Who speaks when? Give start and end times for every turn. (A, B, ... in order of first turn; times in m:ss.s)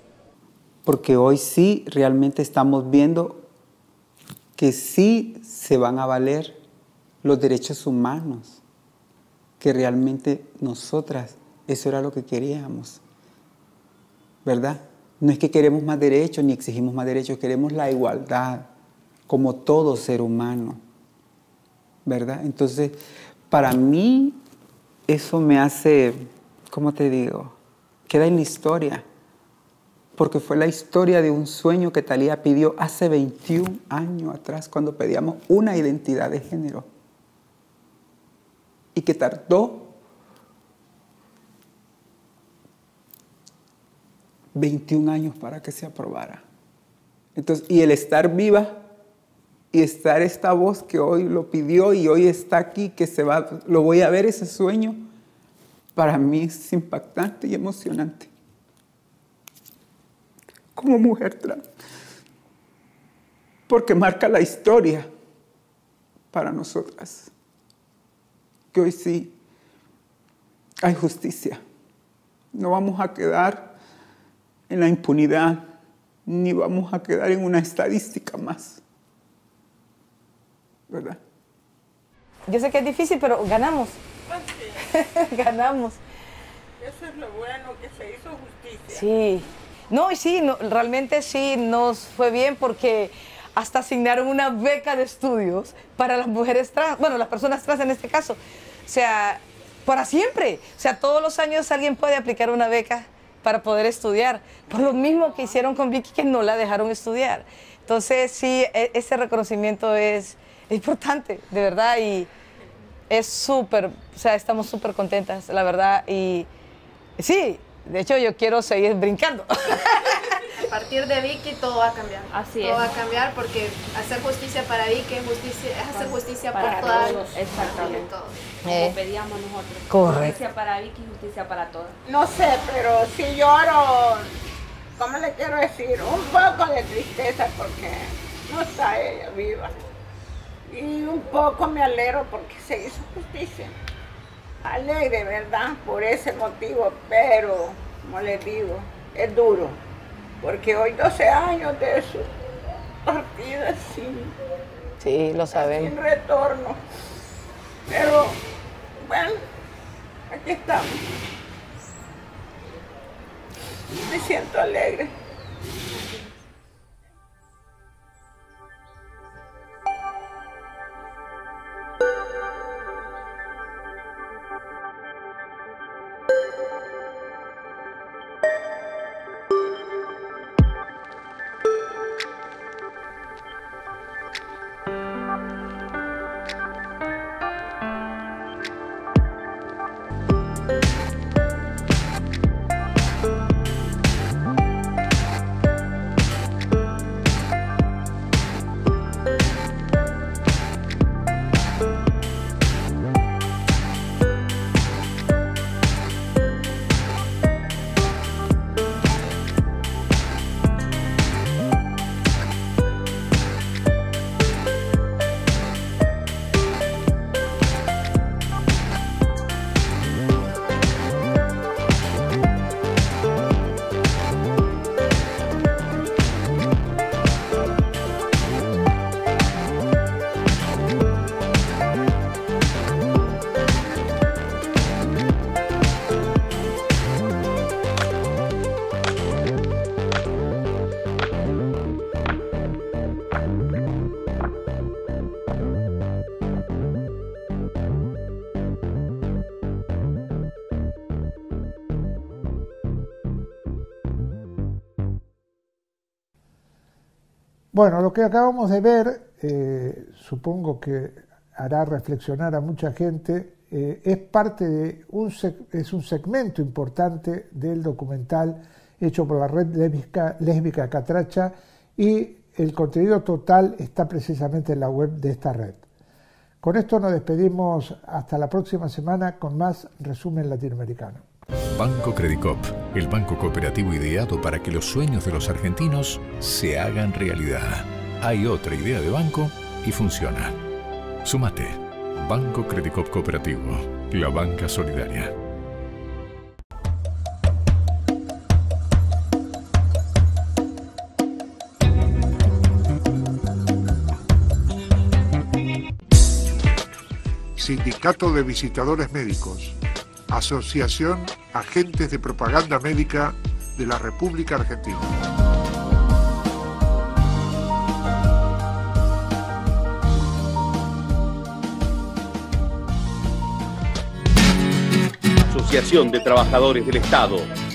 0:00.8-0:03.4 A
0:04.6-0:06.6 A
0:07.2-0:08.6 A
0:09.6-0:13.0 A
0:14.4-0:18.7 A
0:19.3-0:20.8 A
0:22.0-0:23.0 A
0:23.5-0:24.4 A
0:25.1-0:27.6 A
0:28.1-0:29.0 A
0:30.2-0:36.9 A
0:38.9-0:39.9 A
0:44.5-0:46.4 A
0:47.4-0:48.9 A
0:49.7-0:55.0 A
0:55.9-0:58.3 A
1:00.8-1:01.6 A
1:03.7-1:05.1 A
1:06.3-1:07.3 A
1:08.7-1:09.3 A
1:10.8-1:11.6 A
1:12.5-1:13.7 A
1:14.7-1:15.7 A
1:16.3-1:18.8 A
1:20.9-1:21.2 A
1:22.5-1:24.0 B
1:24.3-1:24.9 C
1:24.9-1:26.0 B
1:26.8-1:29.1 C
1:28.9-1:52.3 B
1:53.1-1:56.5 B
1:57.2-2:00.1 B
2:00.6-2:08.3 D
2:02.3-2:02.9 E
2:05.9-2:08.1 E
2:06.6-2:08.1 C
2:08.6-2:12.0 E
2:09.9-2:10.3 B
2:12.0-2:14.3 C
2:15.0-2:19.8 C
2:20.7-2:23.8 C
2:24.6-2:29.8 C
2:30.4-2:32.3 C
2:33.0-2:34.3 C
2:35.0-2:35.9 B
2:35.5-2:36.8 C
2:37.9-2:38.4 C
2:39.0-2:39.4 C
2:40.3-2:41.0 C
2:44.0-2:45.1 C
4:17.7-4:35.8 F
4:36.6-4:41.2 F
4:41.7-4:50.6 G
4:51.2-4:55.3 G
5:07.6-5:09.8 H
5:10.3-5:15.1 H
5:25.4-5:27.5 I